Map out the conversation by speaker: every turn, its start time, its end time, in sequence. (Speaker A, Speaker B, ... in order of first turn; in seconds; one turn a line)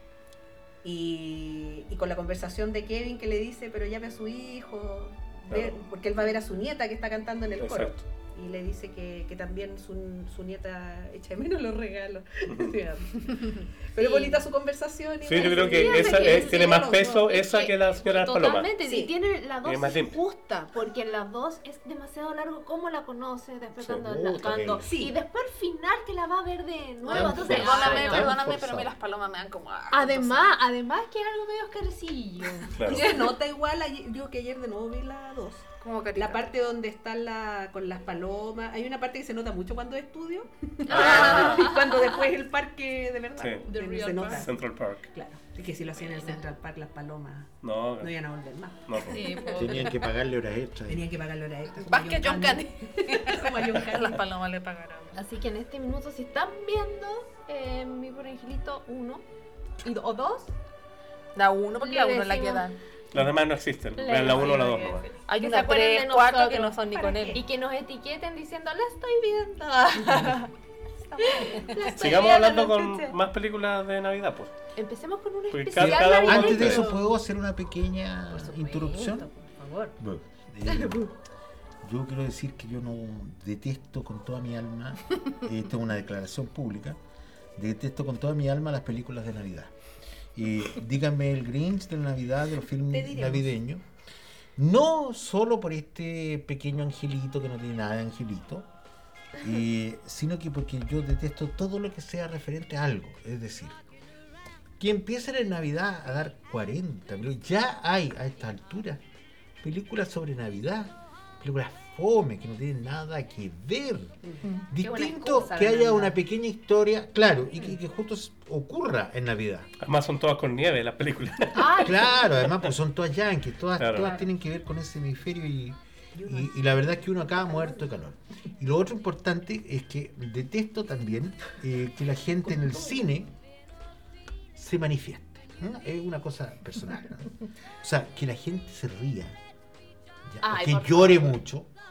Speaker A: 0.8-17.1
Speaker B: 5.5-5.8
Speaker B: 7.6-8.0
Speaker B: 12.5-12.7
Speaker C: 14.0-14.4
Speaker B: 15.2-18.7
Speaker C: 15.4-28.4
Speaker A: 18.8-19.1
Speaker B: 19.6-20.2
Speaker D: 23.9-24.9
Speaker A: 24.8-25.1
Speaker D: 27.1-28.9
Speaker E: 27.1-30.5
Speaker C: 29.9-33.2
Speaker B: 32.8-33.1
Speaker A: 32.9-44.6
Speaker E: 35.8-36.4
Speaker B: 40.9-41.7
Speaker C: 40.9-41.8
Speaker B: 43.4-43.6
Speaker E: 43.7-44.5
Speaker B: 44.3-45.1
Speaker A: 45.1-49.6
Speaker C: 46.1-46.4
Speaker B: 47.6-48.1
Speaker B: 48.9-49.2
Speaker E: 49.1-49.9
Speaker D: 49.5-51.0
Speaker A: 50.9-54.2
Speaker E: 51.8-55.2
Speaker C: 55.1-59.2
Speaker E: 59.8-60.4
Speaker E: 61.3-62.8
Speaker C: 61.8-62.7
Speaker B: 63.1-65.1
Speaker C: 64.0-70.5
Speaker E: 65.3-67.4
Speaker E: 71.2-71.8
Speaker C: 71.2-73.1
Speaker B: 71.9-74.5
Speaker C: 74.8-77.1
Speaker B: 75.5-76.9
Speaker D: 75.8-79.3
Speaker C: 78.3-79.9
Speaker D: 80.0-81.1
Speaker C: 80.7-81.0
Speaker D: 81.8-87.0
Speaker D: 87.5-89.7
Speaker D: 90.3-93.8
Speaker A: 92.9-93.5
Speaker D: 94.5-98.7
Speaker D: 99.4-103.8
Speaker D: 104.8-109.0
Speaker D: 109.6-114.2
Speaker D: 114.7-119.7
Speaker C: 114.7-116.2
Speaker B: 119.8-121.7
Speaker C: 121.6-122.2
Speaker D: 121.6-133.3
Speaker B: 123.8-124.1
Speaker A: 126.1-126.5
Speaker A: 127.4-127.8
Speaker D: 134.5-139.4
Speaker D: 140.3-141.7
Speaker C: 140.4-141.3